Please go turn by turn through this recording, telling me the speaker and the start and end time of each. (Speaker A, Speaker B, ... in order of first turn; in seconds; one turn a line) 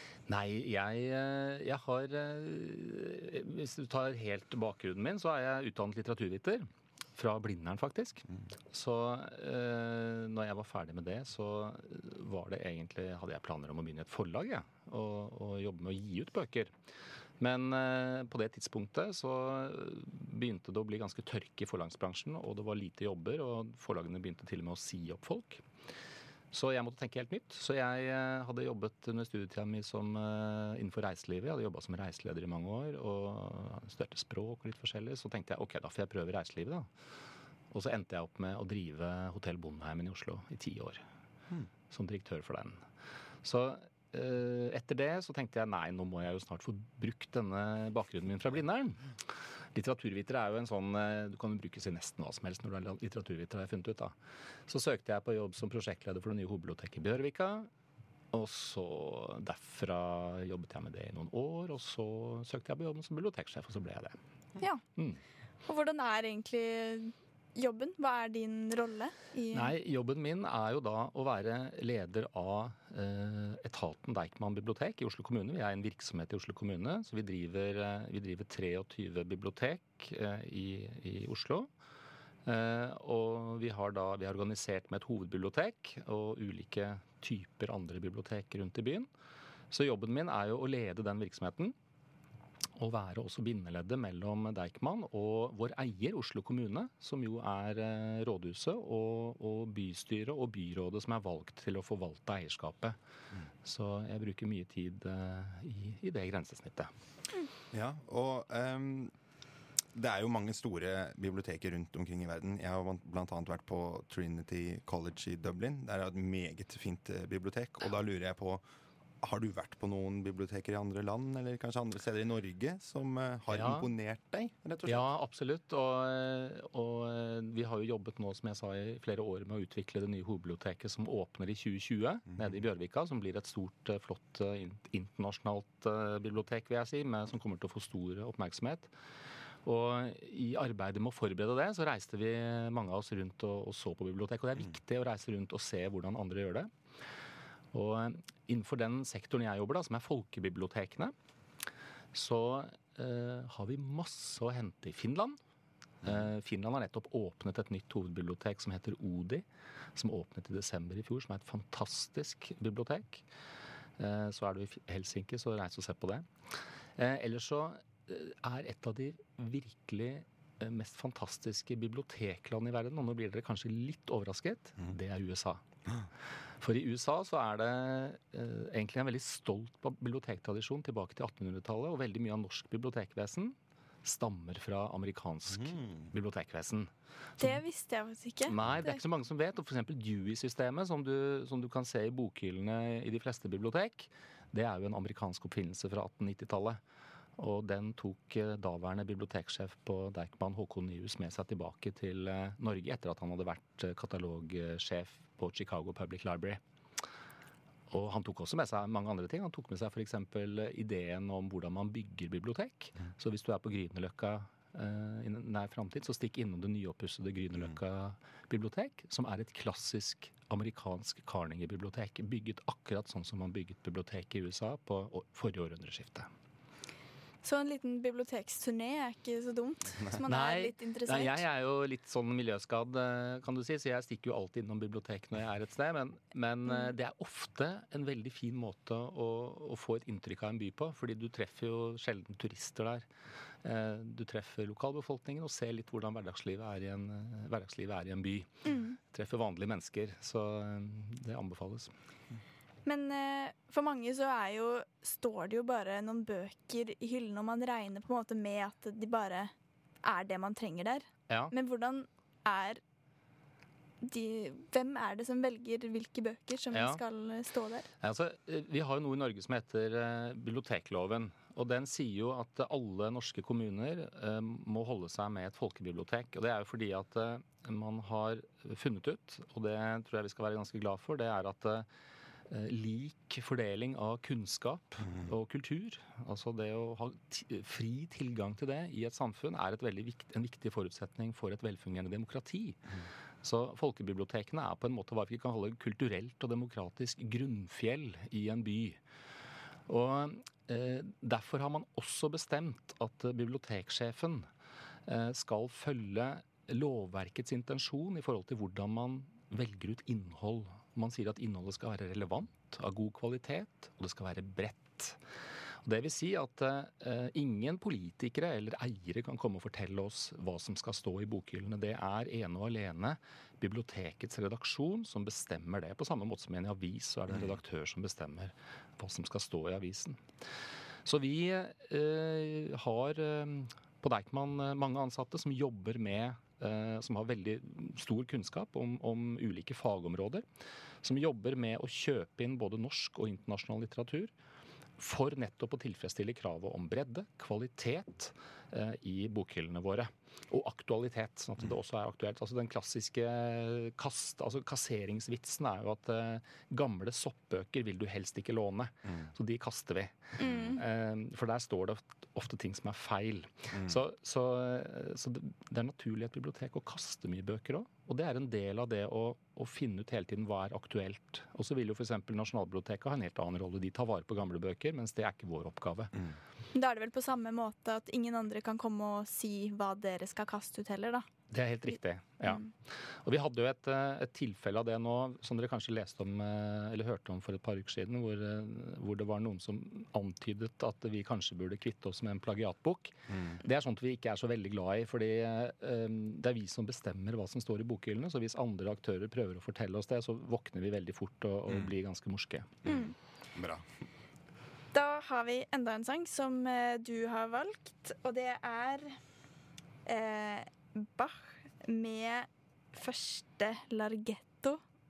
Speaker A: 0.3-16.7
Speaker A: 17.4-25.6
Speaker A: 26.5-36.9
Speaker A: 37.7-41.0
Speaker A: 41.9-42.8
Speaker A: 43.4-49.1
Speaker A: 49.7-54.1
Speaker A: 54.7-57.7
Speaker A: 58.3-64.2
Speaker A: 65.0-65.2
Speaker B: 65.7-69.7
Speaker A: 69.5-81.7
Speaker A: 82.4-89.1
Speaker A: 89.7-91.7
Speaker A: 92.8-103.0
Speaker A: 103.6-106.9
Speaker C: 107.7-109.1
Speaker C: 109.9-118.6
Speaker C: 119.2-125.0
Speaker A: 123.5-123.9
Speaker A: 124.8-138.9
Speaker C: 132.3-132.6
Speaker A: 139.6-146.7
Speaker A: 147.7-151.1
Speaker A: 152.1-155.4
Speaker A: 156.0-163.2
Speaker A: 164.0-166.3
Speaker A: 167.0-175.6
Speaker A: 176.6-187.5
Speaker C: 185.6-186.1
Speaker B: 187.4-189.0
Speaker A: 188.5-196.8
Speaker A: 197.4-206.6
Speaker A: 207.9-226.3
Speaker B: 227.4-231.4
Speaker A: 230.2-243.1
Speaker A: 243.6-248.5
Speaker B: 248.7-248.9
Speaker A: 249.1-251.9
Speaker B: 252.8-262.8
Speaker B: 264.0-267.9
Speaker A: 266.7-267.0
Speaker A: 268.0-281.9
Speaker A: 282.5-292.8
Speaker A: 293.4-299.0
Speaker A: 299.9-304.5
Speaker A: 305.1-315.2
Speaker A: 315.8-330.2
Speaker A: 331.0-340.4
Speaker A: 341.0-344.3
Speaker A: 345.0-376.1
Speaker B: 360.4-360.8
Speaker C: 360.4-360.8
Speaker C: 363.7-364.0
Speaker B: 376.7-381.3
Speaker A: 381.5-402.7
Speaker C: 393.3-393.6
Speaker C: 402.8-403.8
Speaker B: 402.9-403.1
Speaker B: 404.9-409.1
Speaker B: 410.0-414.8